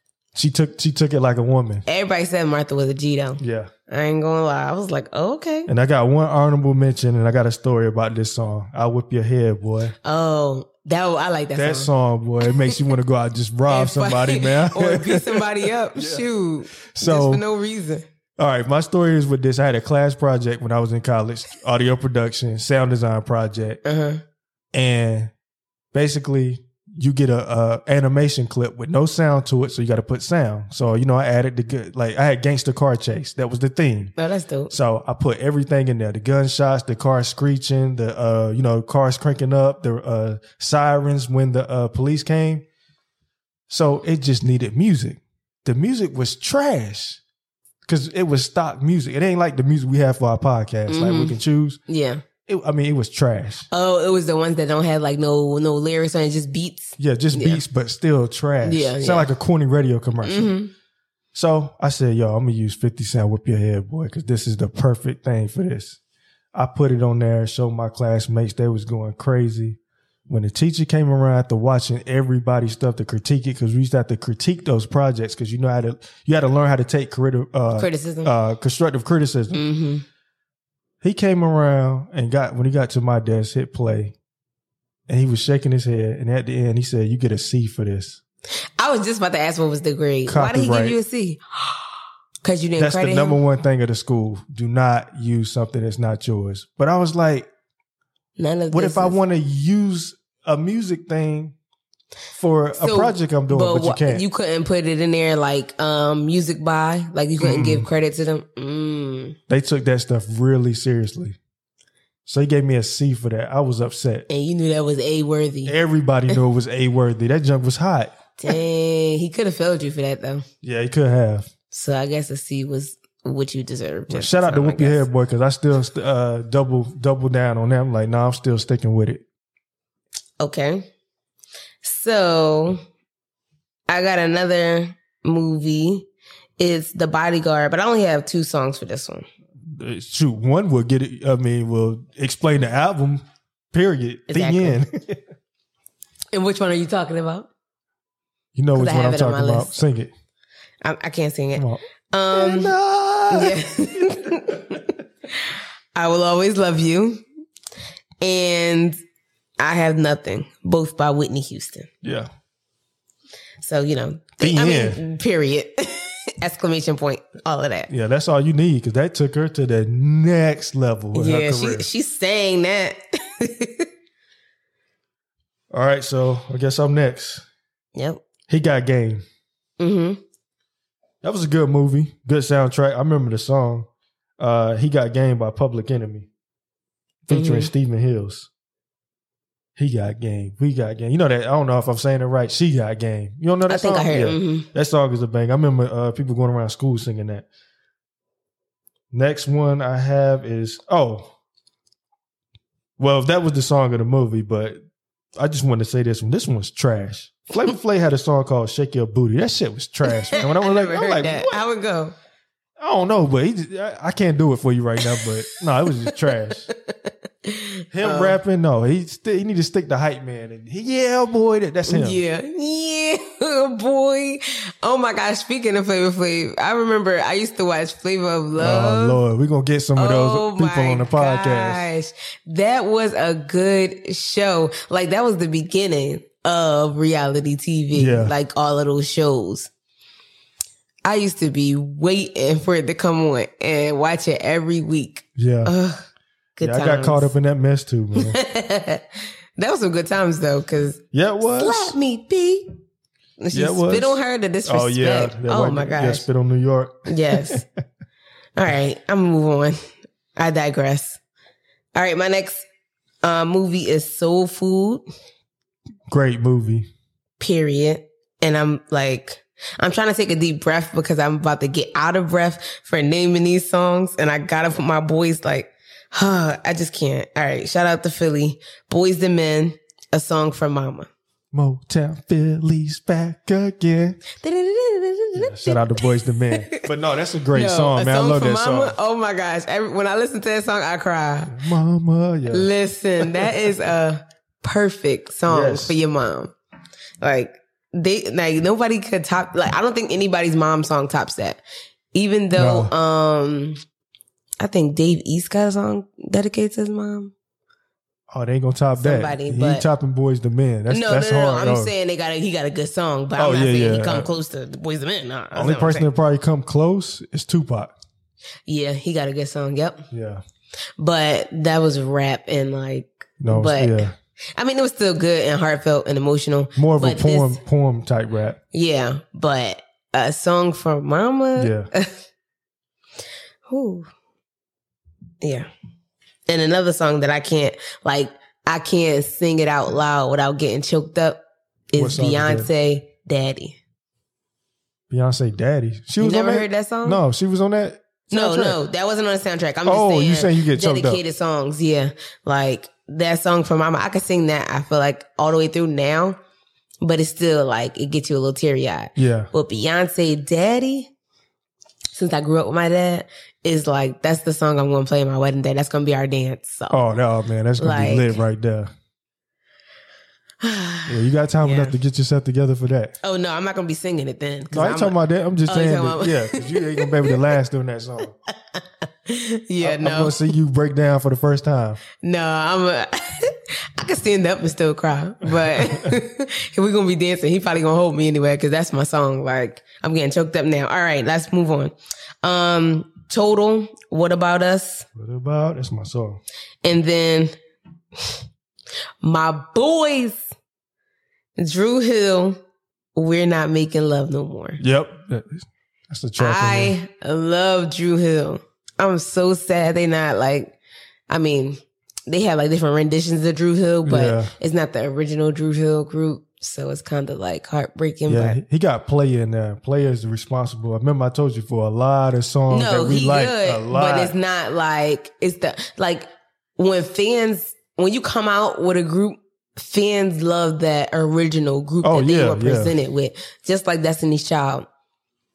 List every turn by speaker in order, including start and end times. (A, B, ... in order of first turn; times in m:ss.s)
0:00.3-0:01.8 A
0:01.8-0:05.7 B
0:03.4-0:03.7 A
0:05.7-0:10.0 A
0:10.0-0:11.9 B
0:11.5-0:16.2 A
0:13.7-0:18.0 B
0:16.9-0:17.4 A
0:18.4-0:23.8 A
0:23.8-0:24.2 B
0:24.7-0:25.3 A
0:25.9-0:34.1 A
0:34.2-0:34.7 B
0:34.7-0:42.6 A
0:43.7-0:47.2 A
0:47.8-0:51.8 A
0:50.9-0:51.4 B
0:51.9-0:52.2 B
0:52.5-0:53.7 A
0:53.7-0:57.6 B
0:57.0-1:00.5 A
0:58.6-0:59.3 B
1:00.2-1:00.7 B
1:01.3-1:06.0 A
1:06.5-1:19.6 A
1:17.8-1:18.3 B
1:19.5-1:20.0 B
1:21.0-1:24.1 A
1:25.1-1:28.2 A
1:28.8-1:31.9 B
1:30.3-1:31.0 A
1:32.4-1:33.4 B
1:32.8-1:37.5 A
1:38.4-1:39.2 B
1:38.7-1:41.5 A
1:42.3-1:44.2 A
1:42.8-1:49.4 B
1:47.4-1:47.9 A
1:49.5-1:51.4 A
1:52.2-1:54.3 A
1:54.3-1:55.7 B
1:55.6-1:58.1 A
1:58.4-2:00.4 B
2:00.6-2:01.5 A
2:01.7-2:05.0 B
2:04.1-2:09.2 A
2:10.4-2:10.9 B
2:11.8-2:12.8 B
2:13.9-2:16.1 B
2:16.6-2:19.2 B
2:19.6-2:25.2 A
2:24.3-2:24.8 B
2:26.3-2:27.5 B
2:28.5-2:30.1 A
2:28.7-2:29.8 B
2:30.8-2:32.7 B
2:31.6-2:34.0 A
2:33.3-2:37.2 B
2:38.2-2:39.0 B
2:39.6-2:41.9 B
2:42.0-2:42.3 A
2:43.6-2:47.9 B
2:44.4-2:45.0 A
2:47.9-2:51.9 A
2:51.1-2:53.9 B
2:55.7-2:57.4 A
2:57.9-2:58.2 B
2:58.5-2:59.2 A
2:59.8-3:00.2 B
3:01.2-3:03.9 A
3:04.4-3:06.3 A
3:07.2-3:08.5 A
3:07.3-3:07.7 B
3:09.8-3:17.4 A
3:13.7-3:14.7 B
3:19.1-3:21.3 A
3:23.0-3:24.8 A
3:25.4-3:31.6 A
3:30.1-3:32.1 B
3:32.8-3:36.7 A
3:37.4-3:38.4 B
3:37.9-3:42.2 A
3:41.9-3:49.2 B
3:48.6-3:51.9 A
3:50.0-3:59.7 B
3:57.9-3:58.3 A
4:01.0-4:06.0 B
4:05.4-4:05.7 A
4:06.6-4:07.3 B
4:06.6-4:08.4 A
4:08.2-4:11.0 B
4:11.1-4:11.9 A
4:11.5-4:12.7 B
4:13.4-4:16.2 B
4:13.5-4:17.6 A
4:17.1-4:17.6 B
4:18.6-4:19.8 B
4:20.4-4:21.2 B
4:21.9-4:22.6 B
4:23.2-4:25.0 B
4:26.1-4:26.9 A
4:27.4-4:41.1 B
4:41.5-4:44.2 A
4:44.4-4:46.9 B
4:45.3-4:48.9 A
4:47.5-4:51.6 B
4:51.5-4:52.7 A
4:52.5-4:56.5 B
4:53.2-4:53.5 A
4:55.5-4:56.0 A
4:57.2-5:01.6 B
5:02.1-5:03.8 B
5:02.5-5:02.9 A
5:04.6-5:07.3 B
5:08.3-5:11.9 A
5:09.0-5:09.8 B
5:10.9-5:16.1 B
5:13.4-5:14.3 A
5:15.5-5:17.9 A
5:18.7-5:20.1 B
5:20.1-5:20.4 A
5:21.0-5:27.6 B
5:23.4-5:24.1 A
5:26.8-5:28.6 A
5:28.7-5:32.1 B
5:31.6-5:31.9 A
5:33.7-5:34.1 B
5:35.4-5:35.7 B
5:36.5-5:43.8 B
5:41.9-5:42.7 A
5:45.1-5:48.8 A
5:46.2-5:47.2 B
5:48.3-5:56.4 B
5:49.8-5:51.2 A
5:57.0-6:01.1 B
5:59.2-5:59.5 A
6:02.1-6:07.1 B
6:06.9-6:08.9 A
6:07.8-6:08.4 B
6:10.6-6:12.0 B
6:11.1-6:13.1 A
6:13.2-6:15.2 B
6:14.7-6:18.3 A
6:15.7-6:17.4 B
6:18.7-6:20.4 B
6:19.8-6:22.0 A
6:22.2-6:35.1 B
6:25.4-6:26.1 A
6:35.1-6:36.4 A
6:36.8-6:37.6 B
6:39.2-6:40.4 B
6:41.6-6:42.6 B
6:43.1-6:44.8 B
6:44.8-6:46.9 A
6:46.4-6:50.7 B
6:51.3-6:58.6 B
6:54.0-6:54.5 A
6:58.3-7:04.3 A
7:02.7-7:14.9 B
7:12.0-7:13.0 A